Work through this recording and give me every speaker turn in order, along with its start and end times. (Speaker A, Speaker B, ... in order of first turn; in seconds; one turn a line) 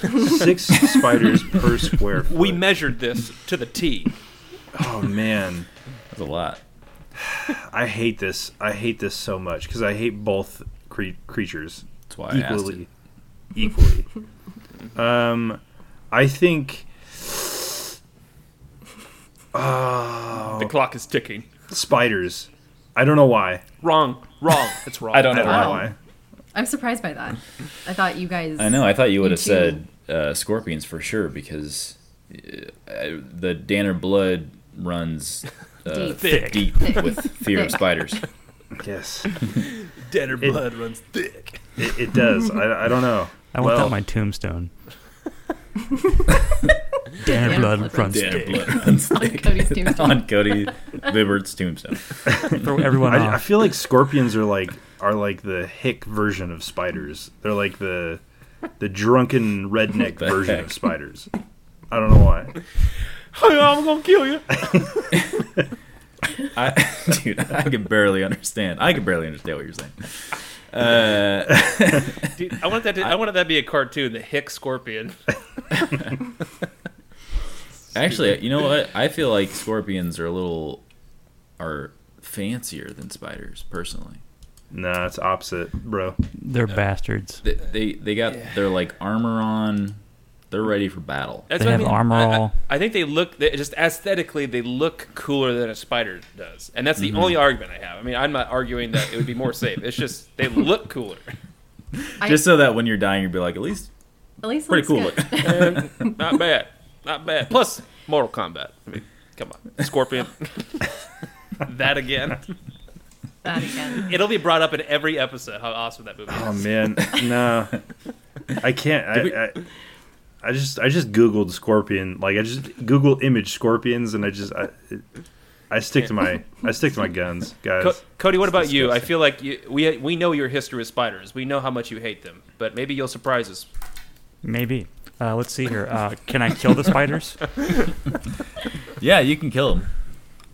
Speaker A: 0.1-2.6
Speaker B: 2.3-4.1
Speaker A: 4.7-5.7
Speaker C: 6.1-6.6
Speaker A: 7.2-12.9
Speaker C: 12.1-12.8
Speaker A: 13.5-14.1
Speaker A: 14.9-15.6
Speaker A: 16.1-17.9
Speaker A: 19.5-20.7
Speaker B: 20.4-21.5
Speaker A: 21.7-23.6
Speaker B: 23.8-25.8
Speaker C: 25.1-25.9
Speaker A: 25.3-25.9
Speaker D: 25.4-25.9
Speaker D: 26.5-29.8
Speaker C: 28.6-38.2
Speaker D: 35.9-37.8
Speaker B: 36.1-36.6
Speaker A: 38.8-39.4
Speaker B: 39.6-41.6
Speaker A: 41.8-44.0
Speaker E: 43.5-44.7
Speaker D: 47.2-50.4
Speaker E: 47.2-48.8
Speaker C: 48.1-52.1
Speaker A: 52.3-58.2
Speaker E: 52.5-53.5
Speaker A: 58.8-61.3
Speaker C: 60.2-60.6
Speaker A: 61.9-62.6
Speaker B: 63.3-65.1
Speaker C: 66.5-72.3
Speaker B: 72.3-75.3
Speaker C: 77.9-80.8
Speaker C: 81.6-84.2
Speaker A: 84.7-86.2
Speaker E: 86.4-87.4
Speaker C: 87.4-90.0
Speaker C: 90.5-91.5
Speaker B: 91.5-101.4
Speaker E: 91.5-92.5
Speaker C: 97.0-97.3
Speaker C: 102.2-103.9
Speaker D: 102.2-102.5
Speaker D: 104.4-106.1
Speaker C: 104.7-105.7
Speaker B: 105.4-110.9
Speaker B: 111.6-112.5
Speaker D: 113.4-114.1
Speaker B: 114.0-116.7
Speaker A: 116.3-117.8
Speaker A: 118.6-119.6
Speaker A: 120.4-125.0
Speaker A: 125.7-128.0
Speaker B: 127.8-133.7
Speaker E: 134.4-137.6
Speaker C: 139.0-139.9